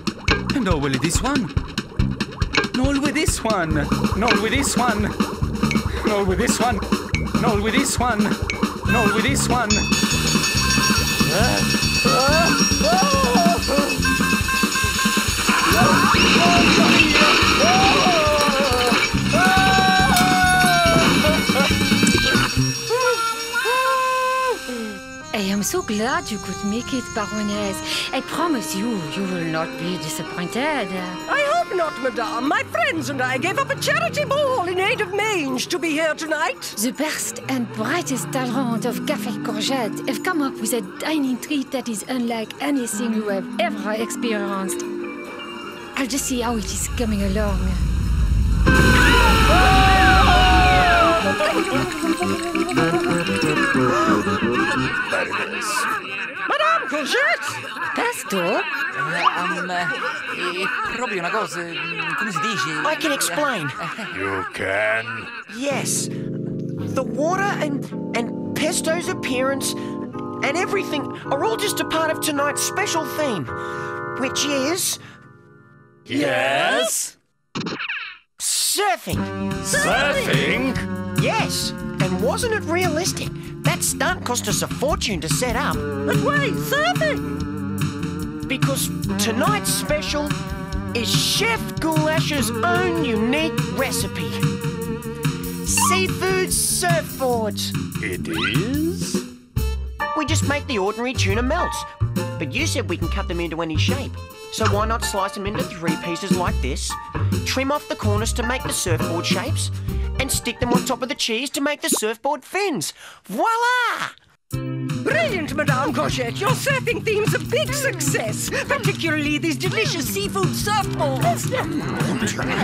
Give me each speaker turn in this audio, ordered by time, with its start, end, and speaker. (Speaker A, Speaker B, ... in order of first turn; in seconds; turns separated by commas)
Speaker A: 0.5-1.5, Speaker A: 2.7-5.2, Speaker A: 6.0-6.8, Speaker A: 7.4-9.9, Speaker A: 12.7-13.6, Speaker A: 16.7-17.6, Speaker B: 25.3-31.2, Speaker C: 31.3-36.8, Speaker B: 36.8-44.8, Speaker B: 45.9-47.8, Speaker D: 55.1-55.9, Speaker C: 56.5-57.6, Speaker B: 57.9-58.7, Speaker A: 58.9-64.1, Speaker E: 62.8-63.8, Speaker D: 64.1-65.3, Speaker E: 65.5-66.1, Speaker E: 66.8-73.5, Speaker E: 74.1-75.0, Speaker D: 76.1-77.1, Speaker C: 76.1-76.9, Speaker E: 78.4-79.3, Speaker D: 79.6-80.8, Speaker C: 79.7-80.5, Speaker E: 81.1-85.8, Speaker C: 86.0-87.4, Speaker E: 88.5-90.3, Speaker E: 90.9-94.4, Speaker E: 95.7-97.7, Speaker D: 98.0-99.2, Speaker E: 100.1-114.1, Speaker C: 115.0-122.4